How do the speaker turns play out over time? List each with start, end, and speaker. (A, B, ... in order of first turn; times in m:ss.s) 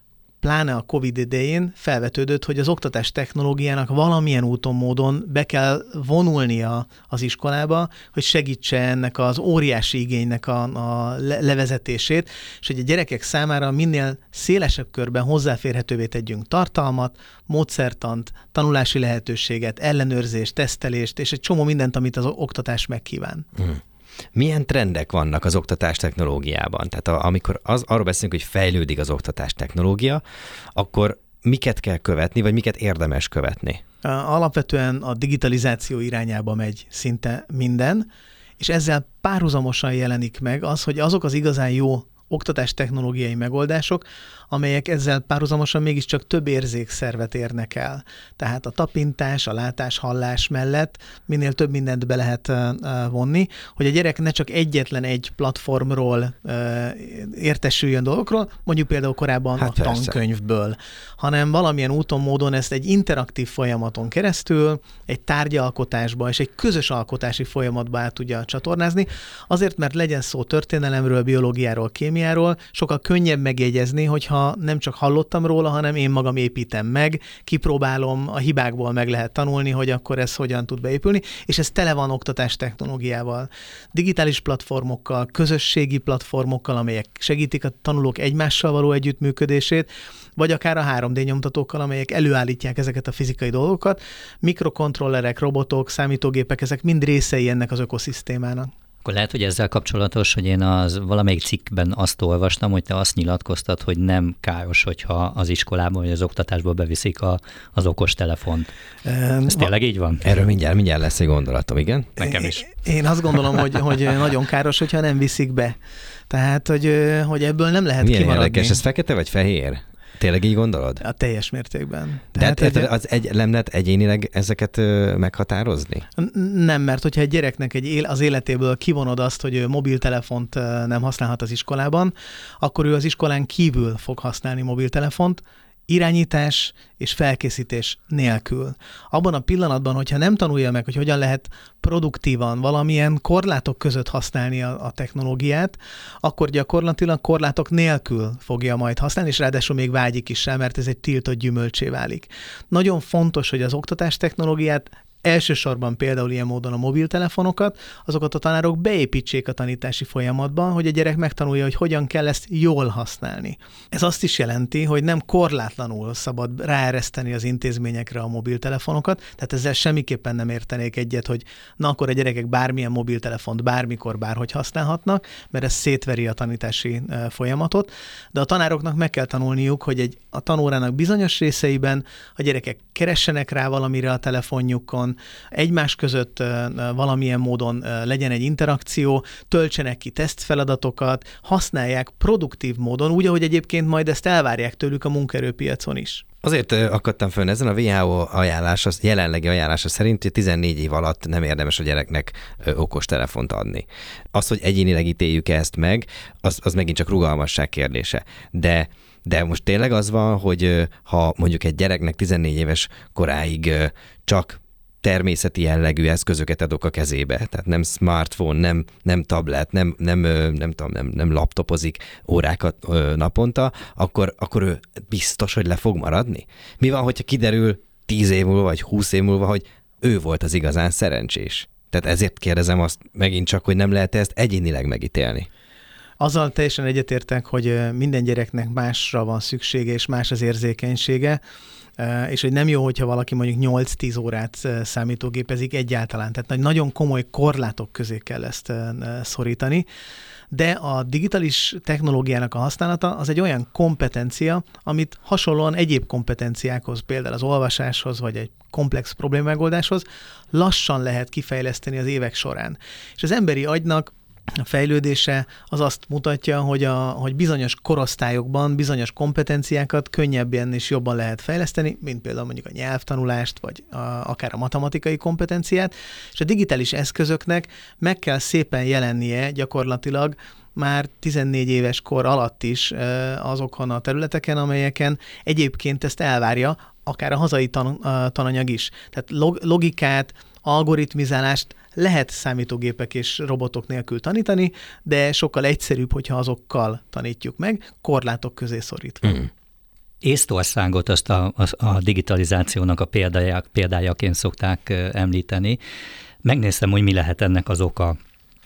0:00.4-0:23.5 A
0:24.3-0:30.2 B
0:30.7-0:33.8 B
0:34.0-0:38.1 A
0:38.6-1:38.7 A
0:59.6-1:00.2 B
1:39.0-1:48.7 C
1:49.0-1:49.7 A
1:49.5-1:50.3 C
1:50.2-1:52.4 B
1:52.2-1:52.6 C
1:52.2-1:55.8 A
1:56.3-1:58.8 A
1:58.0-2:01.0 B
2:01.0-2:02.9 A
2:02.4-2:06.0 B
2:06.2-3:16.2 A
3:16.4-3:55.5 B
3:56.2-4:01.4 A
4:02.0-4:09.8 A
4:10.5-4:24.1 A
4:24.6-4:59.5 A
5:00.2-5:05.8 C
5:06.4-5:08.2 C